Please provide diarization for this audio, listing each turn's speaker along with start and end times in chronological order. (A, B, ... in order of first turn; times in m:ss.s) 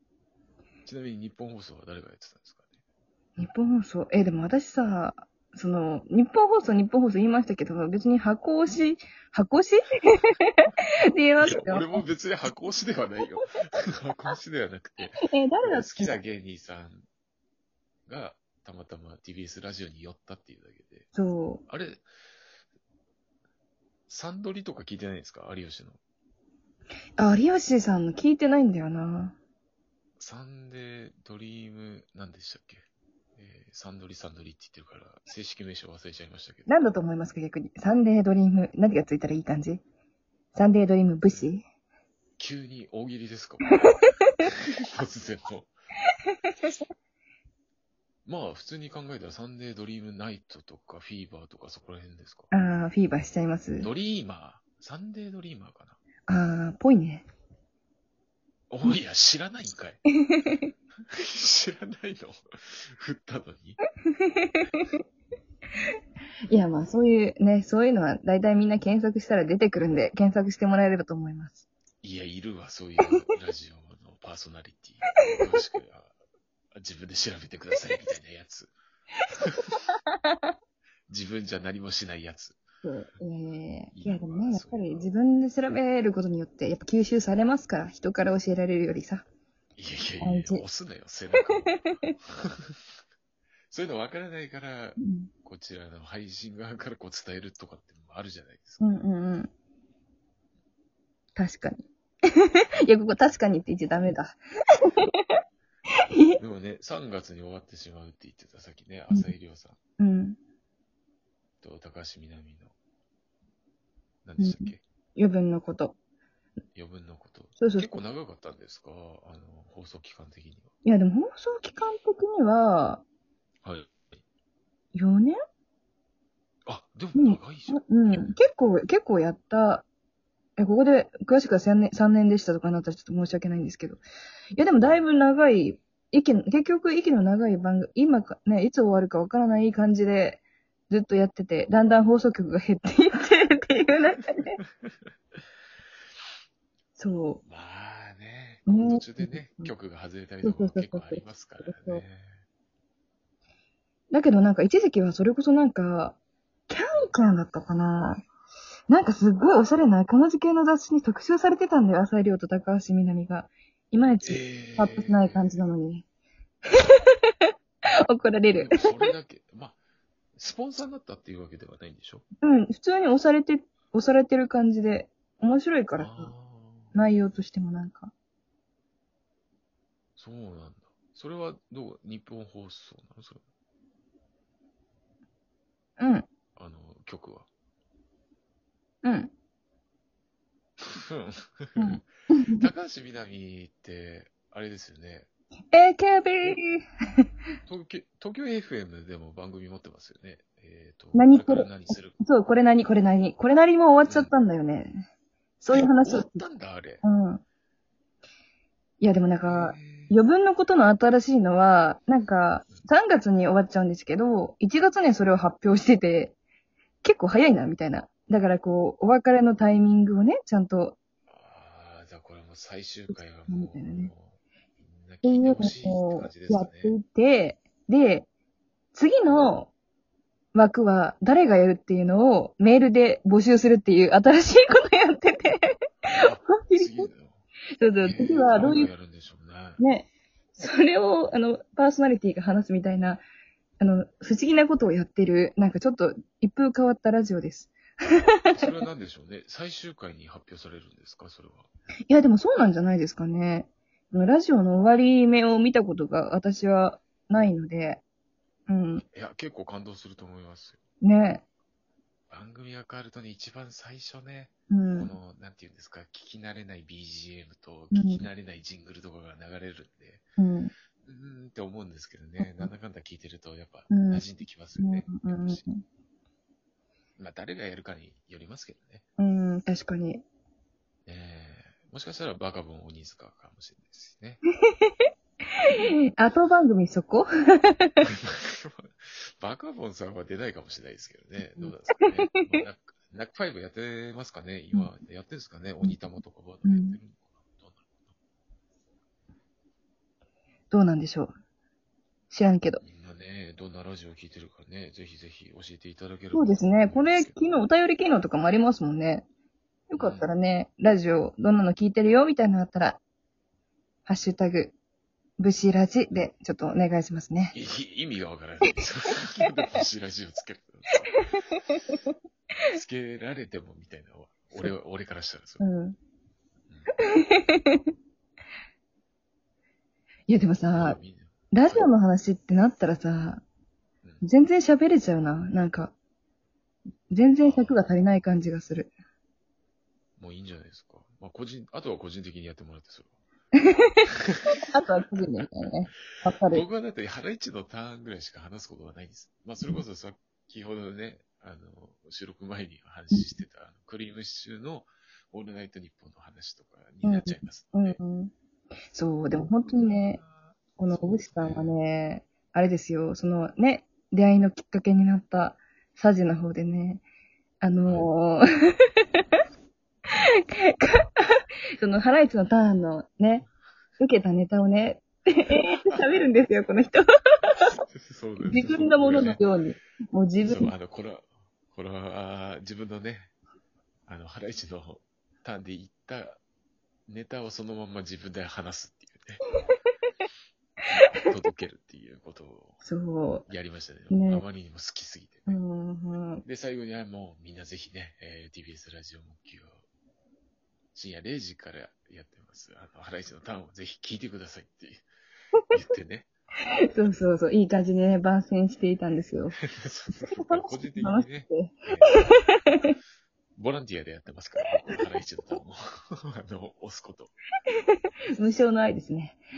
0:00.8-0:02.7 A
0:03.4-0:12.0 B
0:11.4-0:17.1 A
0:15.3-0:16.2 B
0:18.1-0:21.1 A
0:21.1-0:21.6 B
0:21.7-0:22.0 A
0:24.1-0:26.0 A
0:27.2-0:29.4 B
0:30.2-0:32.8 A
0:33.4-0:36.7 A
0:36.7-0:39.8 B
0:40.5-0:41.6 B
0:41.3-0:41.5 A
0:42.4-0:43.8 A
0:44.4-0:45.7 A
0:48.2-0:52.5 A
0:52.5-0:53.9 B
0:53.8-0:56.0 A
0:56.3-0:57.2 B
0:58.7-1:00.0 A
1:00.3-1:00.6 B
1:01.1-1:03.8 A
1:04.4-1:04.9 B
1:06.5-1:11.7 B
1:12.0-1:16.1 A
1:16.7-1:18.7 A
1:19.7-1:20.5 B
1:21.1-1:22.6 A
1:22.8-1:29.2 B
1:23.9-1:25.1 A
1:29.8-1:32.8 A
1:30.2-1:30.6 B
1:31.5-1:32.1 B
1:33.7-1:38.8 A
1:35.0-1:35.3 B
1:38.8-1:39.5 B
1:41.4-1:41.9 B
1:42.6-1:45.2 B
1:46.4-1:49.8 A
1:50.0-1:50.4 B
1:51.6-1:52.7 A
1:54.2-1:54.8 A
1:54.4-1:56.0 B
1:56.7-2:00.7 A
1:57.6-1:57.9 B
2:00.8-2:03.0 B
2:03.6-2:04.0 A
2:04.9-2:05.4 B
2:06.6-2:08.4 A
2:07.1-2:09.8 B
2:10.6-2:14.0 B
2:14.5-2:24.6 B
2:27.0-2:27.4 B
2:27.4-2:32.4 A
2:28.6-2:29.7 B
2:30.4-2:32.0 B
2:34.1-2:36.2 B
2:36.7-2:38.2 B
2:38.9-2:46.0 B
2:44.2-2:45.6 A
2:46.8-2:47.3 B
2:48.1-2:48.7 B
2:48.6-2:49.8 A
2:50.4-2:52.2 A
2:52.4-2:56.3 B
2:56.0-2:56.9 A
2:56.9-2:58.1 B
3:00.2-3:03.4 A
3:06.0-3:06.3 B
3:06.6-3:07.5 A
3:09.0-3:09.3 B
3:10.9-3:12.0 A
3:11.8-3:12.6 B
3:12.5-3:15.3 A
3:15.7-3:16.8 B
3:17.6-3:22.2 A
3:21.1-3:25.1 B
3:24.0-3:24.3 A
3:25.6-3:26.4 B
3:25.7-3:27.0 A
3:27.0-3:27.4 B
3:29.0-3:36.3 B
3:29.4-3:30.2 A
3:37.0-3:41.0 B
3:41.3-3:47.0 A
3:43.5-3:44.1 B
3:45.2-3:48.3 B
3:48.9-3:49.7 B
3:49.3-3:49.5 A
3:50.5-3:55.7 B
3:56.1-3:57.4 A
3:56.6-3:57.1 B
3:57.8-3:58.9 B
3:58.0-3:59.8 A
3:59.8-4:03.2 B
4:03.8-4:07.8 B
4:08.5-4:11.7 A
4:12.1-4:18.0 B
4:18.7-4:19.0 B
4:19.1-4:20.8 A
4:21.0-4:21.4 B
4:22.3-4:30.2 A
4:24.7-4:25.1 B
4:27.9-4:28.3 B
4:30.4-4:30.7 B
4:31.0-4:35.6 A
4:32.4-4:32.7 B
4:33.9-4:34.2 B
4:34.8-4:35.8 B
4:37.2-4:39.0 A
4:39.2-4:40.2 B
4:41.0-4:44.4 A
4:44.7-4:45.1 B
4:45.6-4:48.0 B
4:48.0-4:58.1 A
4:51.6-4:52.6 B
4:56.6-4:57.0 B
5:00.7-5:01.3 B
5:02.3-5:02.8 B
5:02.8-5:07.4 A
5:06.3-5:09.2 B
5:09.9-5:13.0 B
5:10.0-5:10.3 A
5:14.0-5:14.8 B
5:15.4-5:17.5 B
5:17.5-5:21.1 A
5:21.3-5:22.0 B
5:22.7-5:25.6 A
5:25.6-5:26.0 B
5:27.1-5:27.9 B
5:30.3-5:31.0 B
5:30.7-5:31.9 A
5:31.5-5:33.4 B
5:34.2-5:35.9 B
5:37.1-5:38.9 B
5:37.4-5:37.8 A
5:40.2-5:43.2 A
5:43.8-5:46.6 B
5:45.3-5:45.7 A
5:46.5-5:58.0 A
5:57.0-5:58.3 B
5:58.9-6:00.2 B
6:00.1-6:01.8 A
6:00.8-6:07.0 B
6:07.6-6:09.3 B
6:07.8-6:08.1 A
6:10.2-6:13.5 B
6:14.0-6:17.5 B
6:17.7-6:19.4 A
6:18.4-6:20.7 B
6:20.4-6:23.3 A
6:24.1-6:26.4 A
6:27.1-6:29.4 A
6:31.1-6:32.8 A
6:32.8-6:33.4 B
6:33.5-6:35.6 A
6:34.1-6:34.4 B
6:35.5-6:36.4 B
6:36.4-6:39.8 A
6:40.9-6:45.0 A
6:45.7-6:46.3 A
6:46.9-6:49.6 B
6:49.6-6:52.2 A
6:50.4-6:52.9 B
6:53.6-6:57.3 A
6:58.4-6:59.4 B